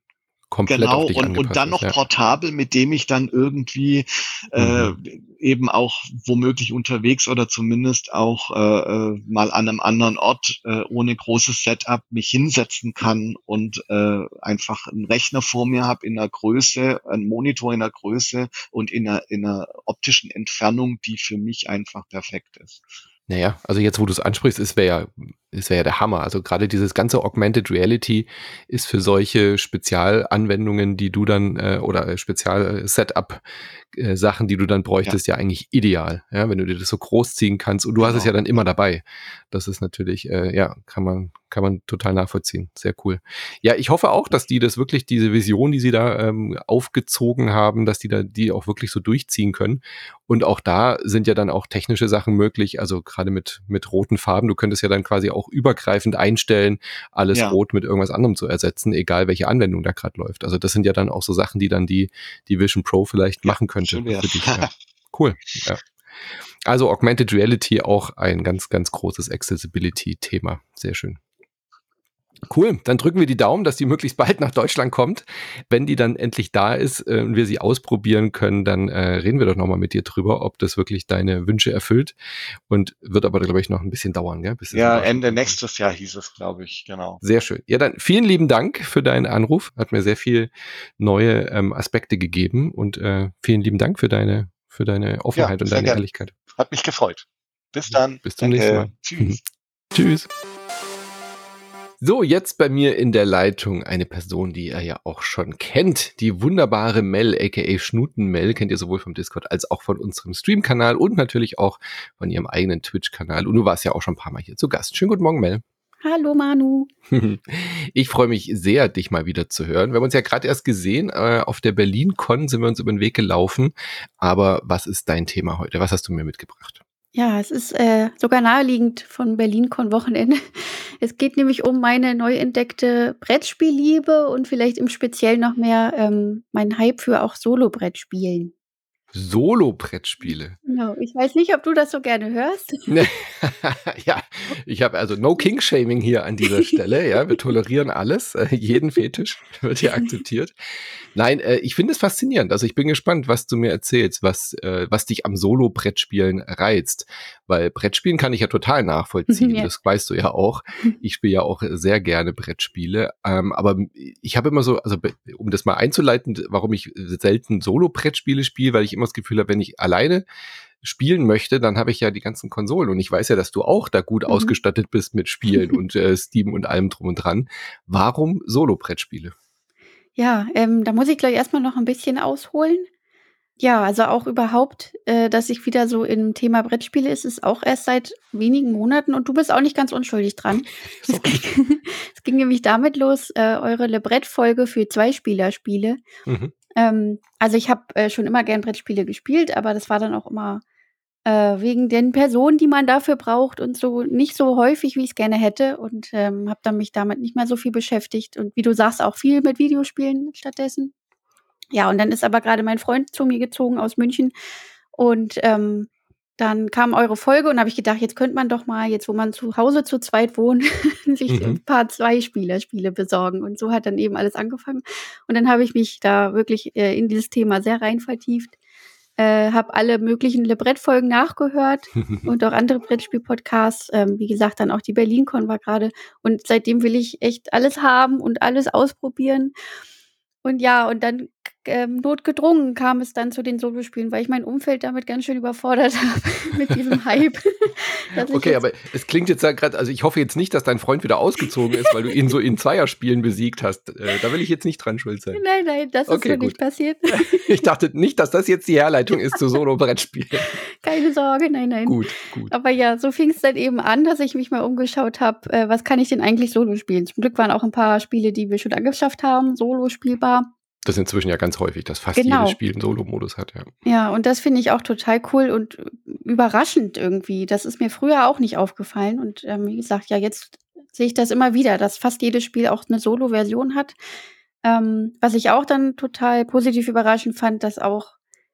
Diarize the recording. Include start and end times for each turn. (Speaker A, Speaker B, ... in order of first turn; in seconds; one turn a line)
Speaker A: 0.5-1.9
Speaker B: 0.7-22.9
Speaker A: 4.6-5.0
Speaker A: 23.3-33.4
Speaker A: 33.9-65.8
Speaker B: 38.0-38.4
Speaker B: 57.3-57.6
Speaker B: 63.5-64.7
Speaker A: 66.7-71.2
Speaker A: 72.5-82.1
Speaker A: 82.7-85.6
Speaker B: 84.7-87.2
Speaker A: 87.2-96.3
Speaker B: 95.3-96.0
Speaker B: 96.5-99.4
Speaker A: 98.2-99.4
Speaker A: 99.9-100.3
Speaker A: 102.0-115.6
Speaker C: 116.0-116.9
Speaker A: 117.1-126.8
Speaker C: 127.2-138.5
Speaker A: 139.1-140.6
Speaker C: 140.2-143.0
Speaker A: 142.9-150.5
Speaker A: 151.1-170.2
Speaker C: 159.3-159.7
Speaker A: 170.8-179.3
Speaker C: 174.3-174.5
Speaker C: 180.2-182.9
Speaker C: 183.6-196.0
Speaker A: 190.7-191.4
Speaker A: 196.3-196.5
Speaker C: 196.8-200.6
Speaker C: 201.3-210.9
Speaker C: 211.7-214.3
Speaker C: 214.9-228.5
Speaker A: 221.3-221.6
Speaker C: 229.2-239.5
Speaker C: 240.4-248.6
Speaker A: 248.2-255.4
Speaker C: 255.3-257.6
Speaker A: 256.1-256.6
Speaker A: 257.1-260.6
Speaker C: 260.8-270.5
Speaker A: 261.9-262.5
Speaker A: 270.9-273.7
Speaker C: 272.2-272.6
Speaker C: 273.9-284.0
Speaker C: 284.6-288.1